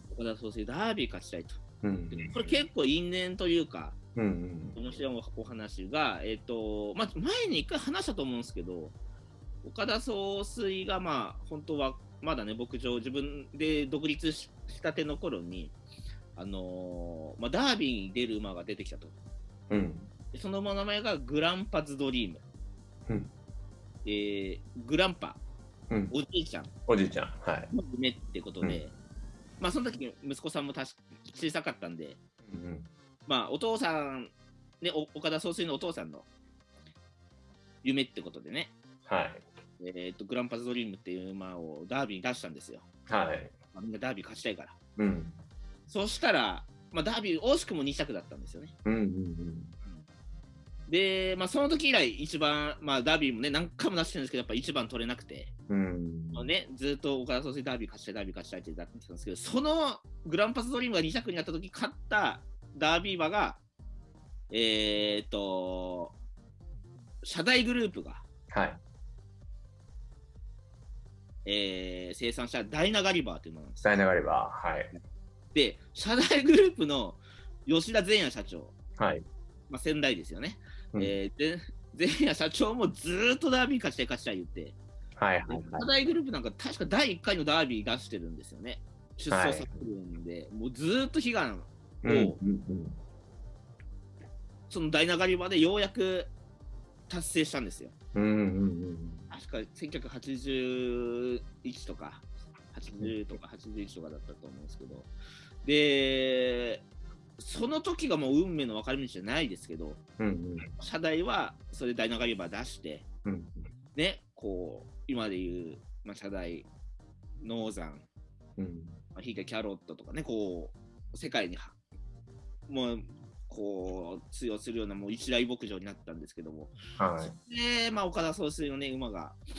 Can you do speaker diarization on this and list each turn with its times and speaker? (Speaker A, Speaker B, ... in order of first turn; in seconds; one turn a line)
Speaker A: 0.1-1.6
Speaker B: 1.8-2.6
Speaker A: 2.1-4.0
Speaker B: 4.1-4.8
Speaker A: 4.7-8.9
Speaker A: 9.6-15.7
Speaker A: 16.4-19.1
Speaker B: 19.7-20.1
Speaker A: 20.3-22.4
Speaker A: 24.0-25.4
Speaker A: 26.1-26.7
Speaker B: 26.9-27.7
Speaker A: 27.7-28.9
Speaker A: 29.6-32.2
Speaker B: 32.4-32.9
Speaker A: 33.2-36.3
Speaker A: 37.8-38.7
Speaker B: 39.0-39.4
Speaker A: 39.8-42.8
Speaker B: 43.1-43.5
Speaker A: 43.7-44.8
Speaker B: 45.0-45.4
Speaker A: 45.9-48.7
Speaker B: 48.8-49.7
Speaker A: 50.9-55.5
Speaker B: 55.7-56.5
Speaker A: 56.3-63.6
Speaker A: 64.5-66.2
Speaker A: 67.2-68.2
Speaker B: 68.5-68.8
Speaker A: 71.4-74.0
Speaker B: 73.8-74.9
Speaker A: 75.5-78.7
Speaker B: 79.0-79.2
Speaker A: 79.7-84.8
Speaker B: 85.2-85.9
Speaker A: 85.5-92.4
Speaker B: 89.3-89.9
Speaker B: 92.0-93.0
Speaker A: 94.7-96.3
Speaker A: 97.1-97.9
Speaker B: 98.1-99.3
Speaker A: 99.3-105.1
Speaker B: 103.0-103.3
Speaker A: 105.6-106.8
Speaker A: 107.4-110.0
Speaker B: 110.2-110.7
Speaker A: 110.8-113.0
Speaker B: 113.2-113.7
Speaker A: 113.9-116.7
Speaker A: 117.4-118.0
Speaker B: 118.6-119.0
Speaker A: 119.2-121.8
Speaker A: 122.7-129.4
Speaker B: 127.0-127.3